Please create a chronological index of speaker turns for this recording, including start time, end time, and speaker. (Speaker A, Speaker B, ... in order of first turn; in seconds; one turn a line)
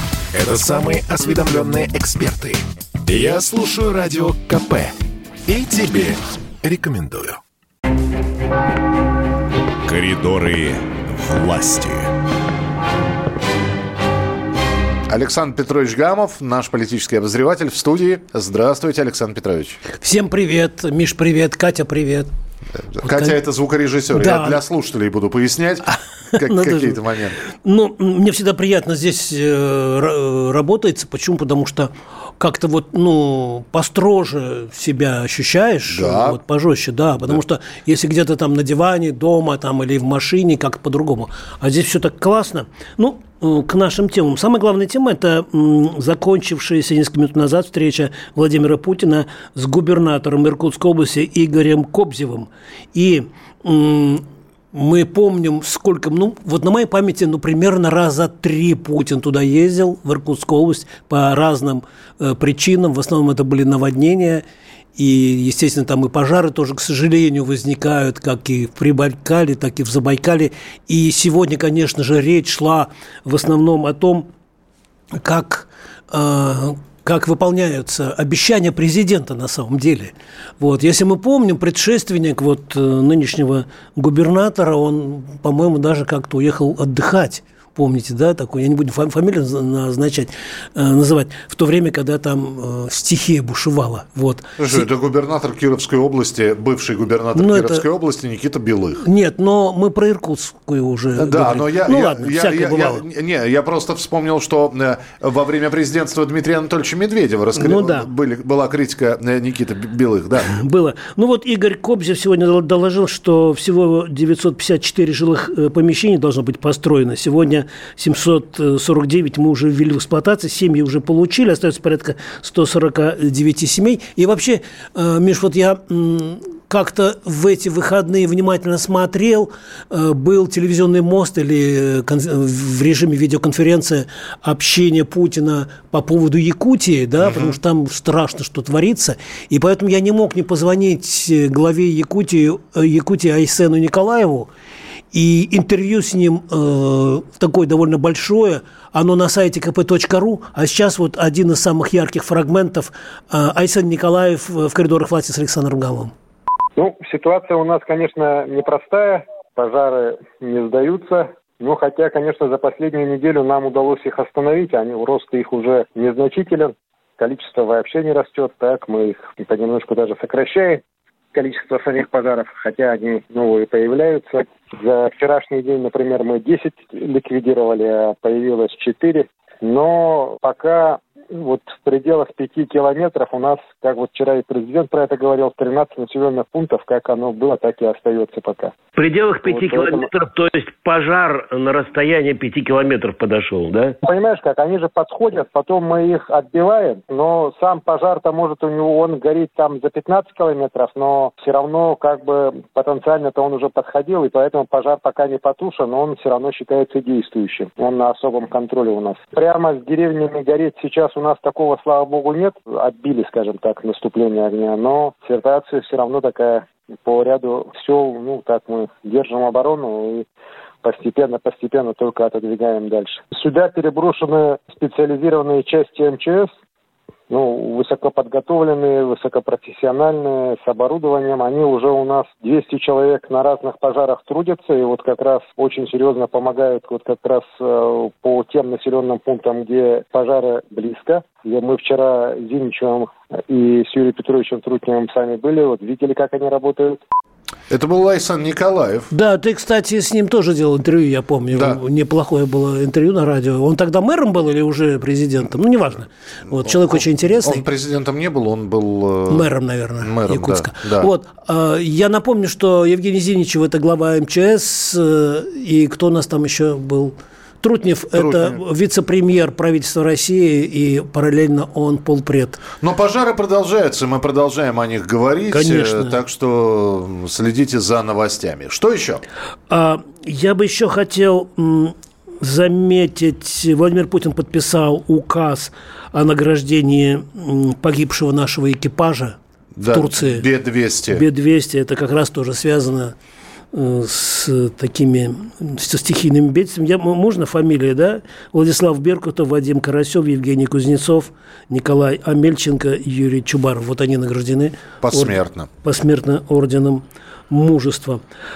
Speaker A: 0.3-4.9
Speaker A: 5.5-7.4
Speaker B: 9.8-12.1
Speaker B: 15.1-19.8
Speaker C: 19.9-22.3
Speaker B: 22.8-27.4
Speaker C: 23.0-23.4
Speaker C: 24.1-24.6
Speaker C: 26.3-64.4
Speaker B: 35.9-36.4
Speaker C: 64.9-74.3
Speaker C: 75.1-94.8
Speaker B: 94.6-99.0
Speaker C: 97.3-97.8
Speaker C: 99.0-103.0
Speaker B: 101.2-110.5
Speaker C: 107.5-108.1
Speaker C: 110.5-144.5
Speaker B: 137.2-137.6
Speaker C: 145.1-156.1
Speaker D: 156.8-170.8
Speaker D: 171.3-188.7
Speaker E: 189.0-193.9
Speaker D: 189.4-190.1
Speaker D: 194.0-220.2
Speaker D: 220.8-226.5
Speaker D: 227.3-247.0
Speaker B: 247.7-249.1
Speaker C: 249.1-257.6
Speaker B: 251.5-251.8
Speaker B: 256.6-259.5
Speaker C: 259.3-272.6
Speaker B: 260.0-261.1
Speaker B: 268.1-268.6
Speaker B: 272.8-279.2
Speaker C: 275.5-276.2
Speaker C: 279.7-289.4
Speaker B: 289.8-291.2
Speaker C: 289.9-290.4
Speaker C: 291.1-293.1
Speaker C: 293.7-308.2
Speaker B: 305.0-305.7